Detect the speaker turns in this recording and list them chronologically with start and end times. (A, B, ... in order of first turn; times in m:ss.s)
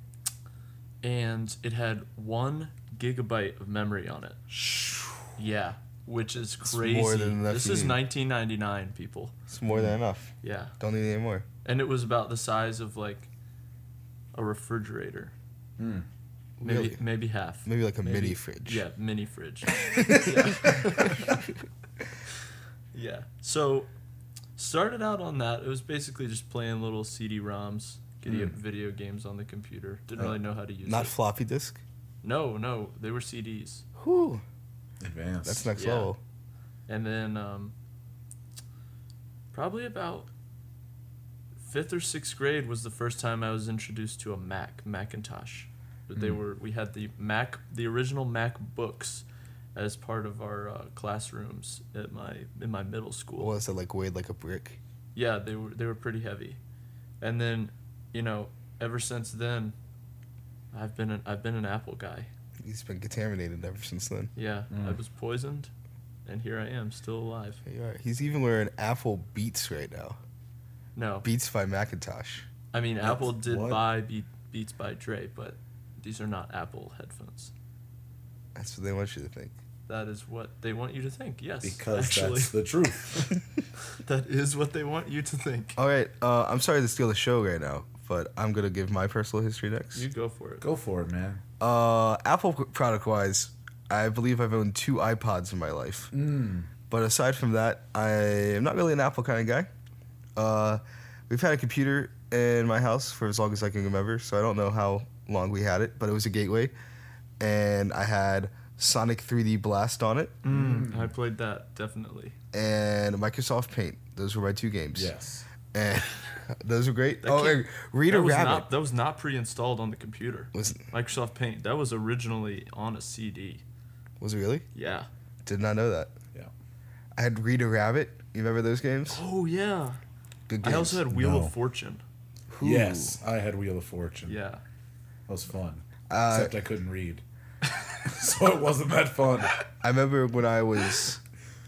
0:01.0-0:04.4 A
0:04.5-0:05.3 B
0:05.4-0:09.3 A
0:06.6-0:08.0 C
0:09.5-0:11.4 C
0:09.7-0:10.0 B
0:10.4-0:10.8 A
0:11.6-0:13.3 A
0:14.3-0:15.3 A
0:15.8-0:16.1 B
0:16.6-0:17.0 C
0:16.6-0:21.4 A
0:17.6-0:18.8 C
0:19.8-0:21.3 C
0:22.9-0:23.9 A
0:24.6-0:31.2 A
0:28.3-0:28.5 B
0:30.2-0:31.8 C
0:32.2-0:33.8 A
0:34.0-0:34.4 C
0:35.0-0:35.7 B
0:35.4-0:36.2 C
0:35.8-0:36.1 A
0:36.9-0:37.7 A
0:39.5-0:40.3 A
0:41.6-0:49.2 A
0:49.8-0:53.5 A
0:53.4-0:54.8 C
0:55.2-0:56.6 A
0:57.2-0:59.8 A
1:00.7-1:02.3 A
1:02.6-1:04.3 C
1:04.4-1:05.7 A
1:04.7-1:05.0 B
1:06.3-1:07.6 A
1:07.7-1:10.2 C
1:11.0-1:11.3 A
1:11.2-1:12.5 C
1:12.7-1:17.5 A
1:13.0-1:13.8 B
1:18.6-1:19.5 C
1:19.9-1:22.5 A
1:21.6-1:23.3 B
1:23.9-1:25.8 A
1:25.8-1:30.0 C
1:29.9-1:30.6 A
1:30.6-1:31.4 B
1:31.6-1:36.1 C
1:36.1-1:36.7 B
1:36.9-1:39.7 C
1:40.4-1:46.7 C
1:47.4-1:50.4 C
1:50.4-1:52.4 A
1:50.5-1:51.1 B
1:52.5-1:55.1 C
1:55.0-1:55.4 B
1:55.7-1:58.7 C
1:57.2-2:03.6 A
2:00.5-2:00.8 C
2:04.2-2:04.7 C
2:04.8-2:05.1 A
2:05.4-2:06.1 C
2:07.2-2:09.2 C
2:09.1-2:10.0 A
2:10.5-2:11.0 C
2:10.6-2:12.0 A
2:11.1-2:11.5 B
2:12.5-2:13.2 C
2:12.6-2:14.4 B
2:14.3-2:14.6 A
2:15.3-2:17.2 B
2:16.1-2:16.5 C
2:18.0-2:19.6 B
2:19.8-2:21.2 C